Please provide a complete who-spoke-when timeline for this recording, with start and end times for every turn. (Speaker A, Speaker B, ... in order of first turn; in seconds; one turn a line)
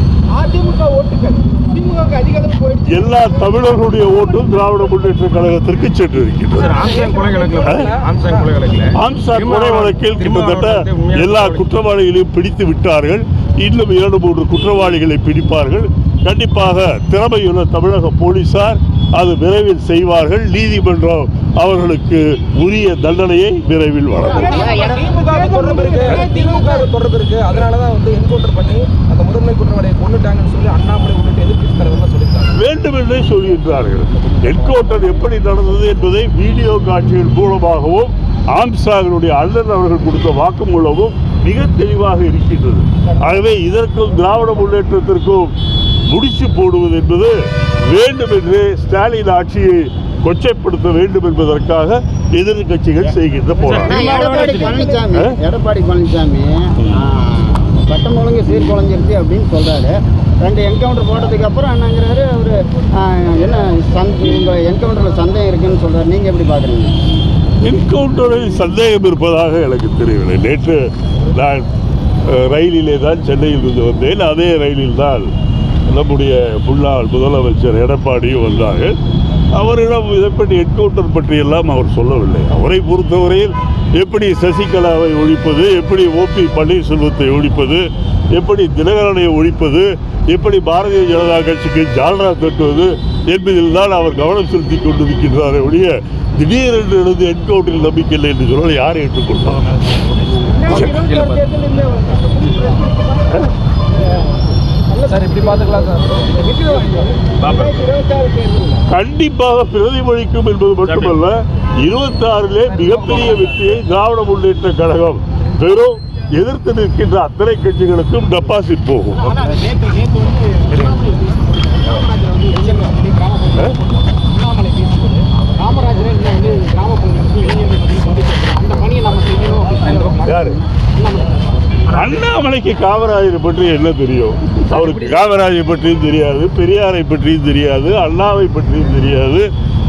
Speaker A: 0.3-3.4
Speaker B: 2.8-6.8
Speaker C: 6.5-11.7
Speaker A: 6.6-8.5
Speaker B: 7.6-7.9
Speaker B: 8.9-24.7
Speaker A: 24.4-32.5
Speaker C: 24.8-25.1
Speaker C: 26.0-26.9
Speaker C: 28.7-31.3
Speaker C: 31.8-32.5
Speaker B: 32.5-45.5
Speaker B: 46.1-54.1
Speaker C: 53.6-54.9
Speaker D: 53.8-66.9
Speaker A: 54.1-54.8
Speaker B: 55.1-55.4
Speaker B: 67.6-71.7
Speaker B: 72.2-75.3
Speaker B: 75.9-79.0
Speaker B: 79.5-99.7
Speaker A: 100.5-103.4
Speaker B: 100.7-101.0
Speaker C: 100.7-101.4
Speaker A: 104.9-108.8
Speaker C: 107.4-107.8
Speaker B: 108.8-119.4
Speaker C: 110.8-111.2
Speaker A: 112.8-113.5
Speaker A: 119.3-121.2
Speaker A: 121.8-130.3
Speaker C: 129.8-130.6
Speaker B: 130.3-130.6
Speaker A: 130.9-131.4
Speaker B: 131.9-139.5
Speaker A: 134.7-135.0